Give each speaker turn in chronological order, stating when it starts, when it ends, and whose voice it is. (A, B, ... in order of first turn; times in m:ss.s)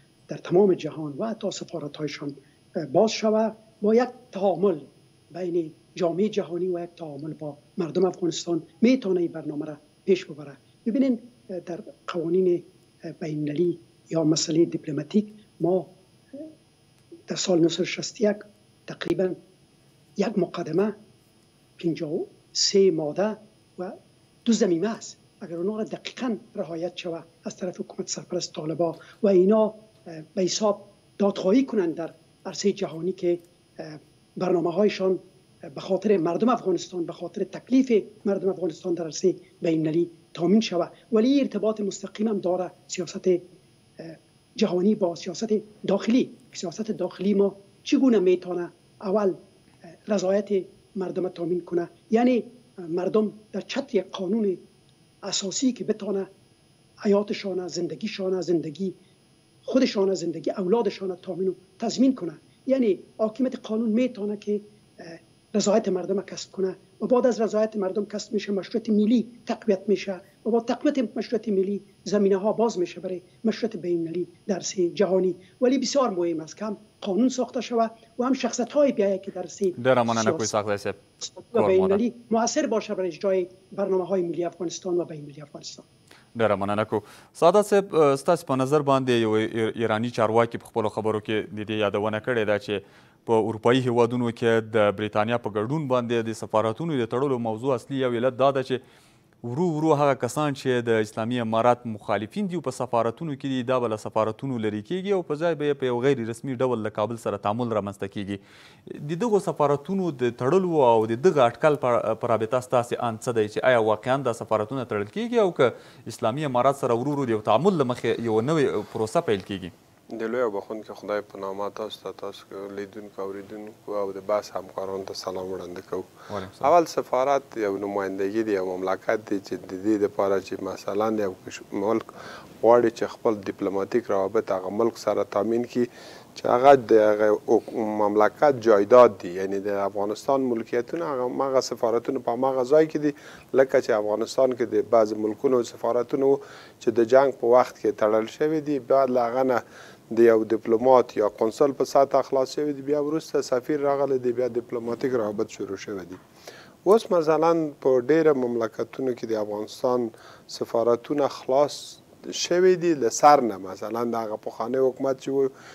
0:00.3-0:16.5 A
0:17.3-0:19.4 A
0:20.2-0:21.0 A
0:21.8-0:43.4 A
0:44.0-0:49.4 A
0:50.0-0:54.6 A
0:55.2-0:56.3 A
0:57.0-0:59.0 A
0:59.6-1:20.5 A
1:19.8-1:21.0 B
1:21.2-1:25.9 A
1:21.5-1:22.0 B
1:26.4-1:38.8 B
1:39.4-1:59.7 B
2:00.1-2:36.2 C
2:06.3-2:06.7 B
2:36.8-2:45.5 C